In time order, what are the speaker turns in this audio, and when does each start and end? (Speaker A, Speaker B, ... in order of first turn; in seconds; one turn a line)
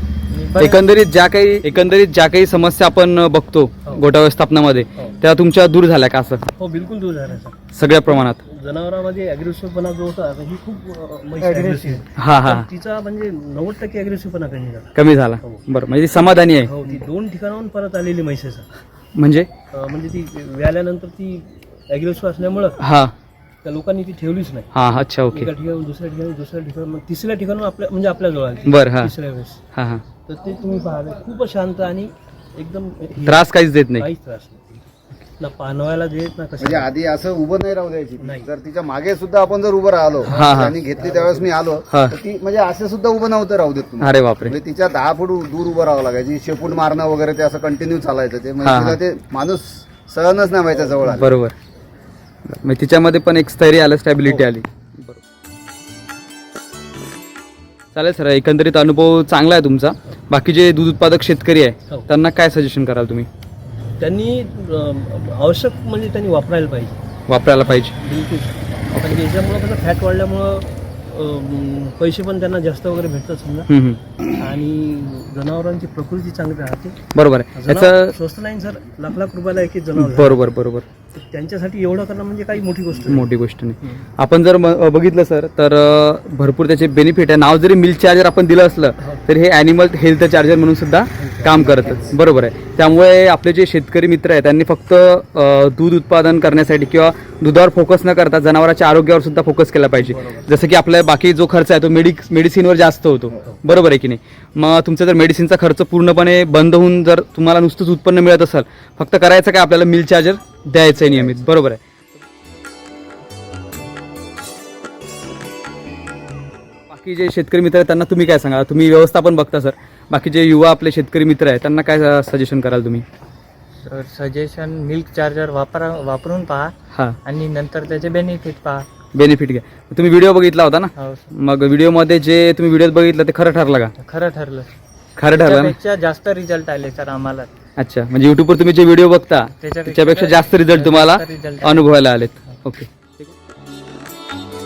Speaker A: 0.3-0.9
Speaker B: 0.6-6.4
Speaker C: 6.6-15.6
Speaker B: 7.7-8.4
Speaker B: 12.1-12.7
Speaker B: 14.9-16.7
Speaker C: 16.6-18.7
Speaker B: 19.1-19.5
Speaker C: 19.7-22.8
Speaker B: 22.8-23.1
Speaker C: 23.6-24.7
Speaker B: 24.7-25.5
Speaker C: 25.3-29.6
Speaker B: 28.7-29.1
Speaker B: 29.7-30.0
Speaker C: 30.3-34.8
Speaker B: 33.2-34.0
Speaker C: 35.4-36.9
Speaker D: 36.6-51.3
Speaker C: 38.2-38.5
Speaker C: 40.2-41.5
Speaker B: 40.4-40.7
Speaker B: 44.0-44.5
Speaker B: 48.6-49.0
Speaker B: 51.2-51.5
Speaker B: 52.5-55.2
Speaker B: 57.9-63.3
Speaker C: 64.0-67.0
Speaker B: 67.3-68.0
Speaker C: 67.7-73.7
Speaker B: 68.9-69.2
Speaker B: 73.7-74.0
Speaker C: 74.4-77.0
Speaker B: 77.1-78.1
Speaker C: 77.5-80.6
Speaker B: 80.0-80.8
Speaker C: 81.1-83.3
Speaker B: 83.1-111.8
Speaker C: 91.2-92.2
Speaker C: 100.0-100.5
Speaker C: 111.0-111.4
Speaker B: 116.9-123.0
Speaker A: 123.8-126.7
Speaker B: 126.9-127.2
Speaker A: 127.2-128.9
Speaker B: 129.1-133.9
Speaker A: 130.9-131.3
Speaker A: 134.0-134.7
Speaker B: 135.2-135.8
Speaker A: 135.3-137.5
Speaker B: 137.8-143.3
Speaker A: 139.6-142.6